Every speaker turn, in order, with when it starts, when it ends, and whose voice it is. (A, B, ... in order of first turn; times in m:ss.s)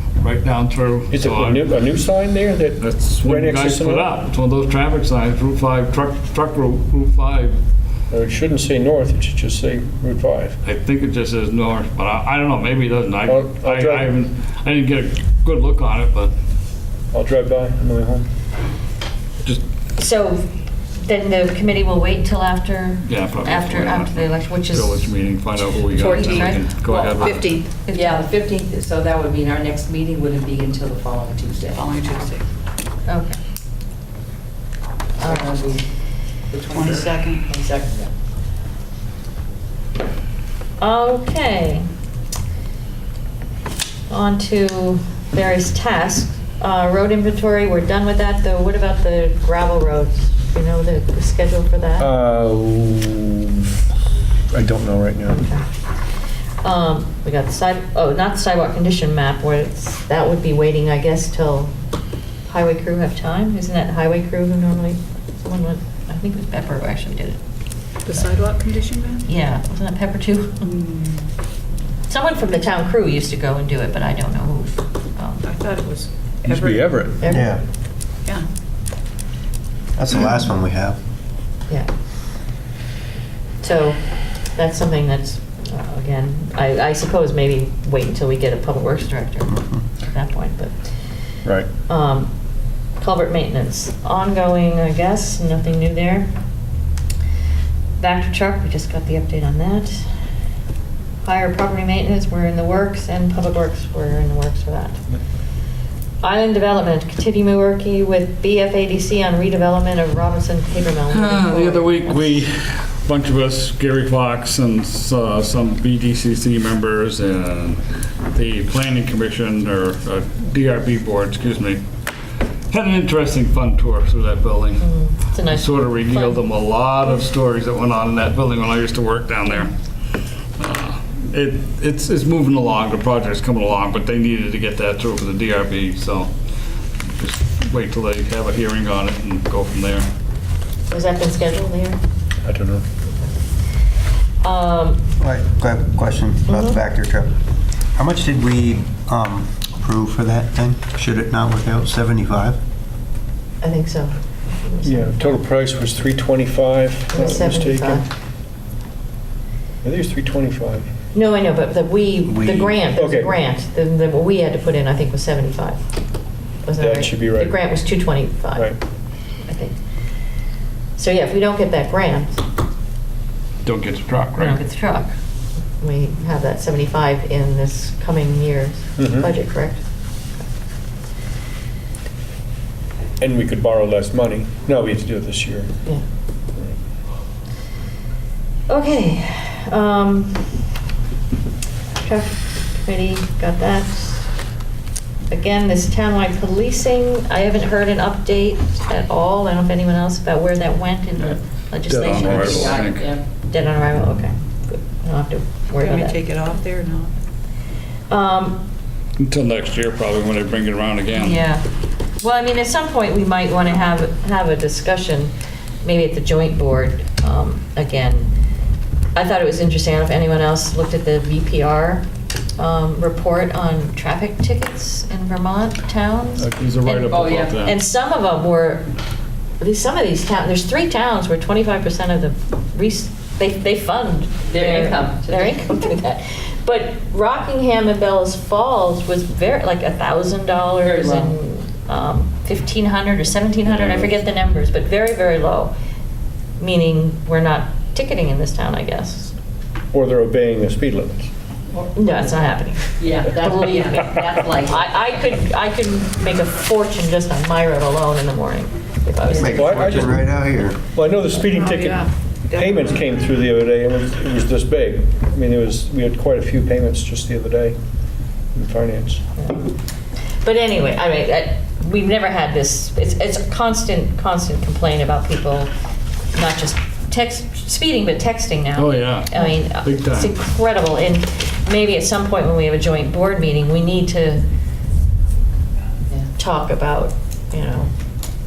0:00.2-0:01.6 A
0:01.1-0:04.1 B
0:02.8-0:07.6 A
0:08.1-0:10.6 B
0:10.6-0:16.3 A
0:13.2-0:14.1 B
0:17.1-0:18.3 B
0:20.0-0:25.1 C
0:23.0-0:27.4 A
0:25.8-0:28.3 C
0:25.9-0:27.4 D
0:27.2-0:27.7 E
0:27.9-0:31.8 D
0:31.7-0:32.4 E
0:33.1-0:33.4 C
0:35.2-0:35.5 C
0:35.2-0:35.9 D
0:36.5-0:38.1 D
0:36.7-0:37.5 E
0:40.8-0:41.8 C
0:44.1-0:52.1 C
0:52.0-0:53.4 B
0:54.5-0:55.4 B
0:55.3-0:55.7 C
0:56.6-1:01.7 C
1:02.5-1:07.4 C
1:08.1-1:09.2 E
1:09.3-1:10.7 C
1:10.6-1:11.3 E
1:12.1-1:15.4 C
1:15.4-1:17.1 E
1:16.4-1:17.2 B
1:17.2-1:17.5 C
1:17.3-1:17.6 F
1:20.0-1:21.0 F
1:23.6-1:24.0 C
1:24.5-1:30.9 C
1:31.9-1:32.3 C
1:33.0-1:36.3 C
1:38.0-1:40.2 C
1:41.2-1:45.0 C
1:46.2-1:52.4 C
1:51.1-2:01.8 A
2:02.7-2:04.9 A
2:04.8-2:06.4 C
2:05.5-2:09.7 A
2:10.6-2:16.3 A
2:17.0-2:20.1 A
2:20.9-2:22.0 C
2:22.4-2:22.9 B
2:24.4-2:25.0 C
2:25.2-2:27.4 F
2:26.5-2:26.8 C
2:28.0-2:32.6 F
2:33.6-2:35.4 C
2:34.8-2:38.0 B
2:37.1-2:38.0 C
2:39.8-2:40.9 B
2:41.1-2:45.8 C
2:42.3-2:42.8 F
2:42.9-2:43.3 B
2:46.6-2:48.7 C
2:46.8-2:47.6 B
2:49.5-2:49.7 C
2:51.0-2:52.4 C
2:53.6-2:54.6 A
2:54.4-2:55.1 C
2:55.8-2:59.8 C
2:59.0-2:59.3 B
3:03.2-3:05.7 B
3:08.7-3:10.6 C
3:12.0-3:14.3 C
3:15.3-3:22.8 C
3:21.9-3:23.1 A
3:22.2-3:22.8 B
3:22.2-3:23.2 D
3:23.4-3:26.2 C
3:25.8-3:27.1 E
3:28.1-3:28.6 C
3:29.2-3:31.4 A
3:31.1-3:38.3 C
3:39.1-3:42.0 C
3:42.6-3:48.9 C
3:46.4-3:47.8 A
3:47.0-3:47.5 D
3:49.6-4:05.7 C
3:54.5-3:55.6 D
4:00.8-4:01.4 D
4:03.8-4:04.1 A
4:06.6-4:09.3 C
4:09.9-4:11.3 B
4:11.8-4:19.8 C
4:13.0-4:15.0 D
4:19.2-4:19.7 D
4:19.4-4:20.2 B
4:19.4-4:20.8 F
4:20.9-4:27.8 B
4:21.6-4:23.0 E
4:28.6-4:29.2 B
4:29.4-4:29.7 C
4:30.4-4:35.7 C
4:36.3-4:44.4 C
4:38.8-4:40.4 A
4:46.4-4:47.9 C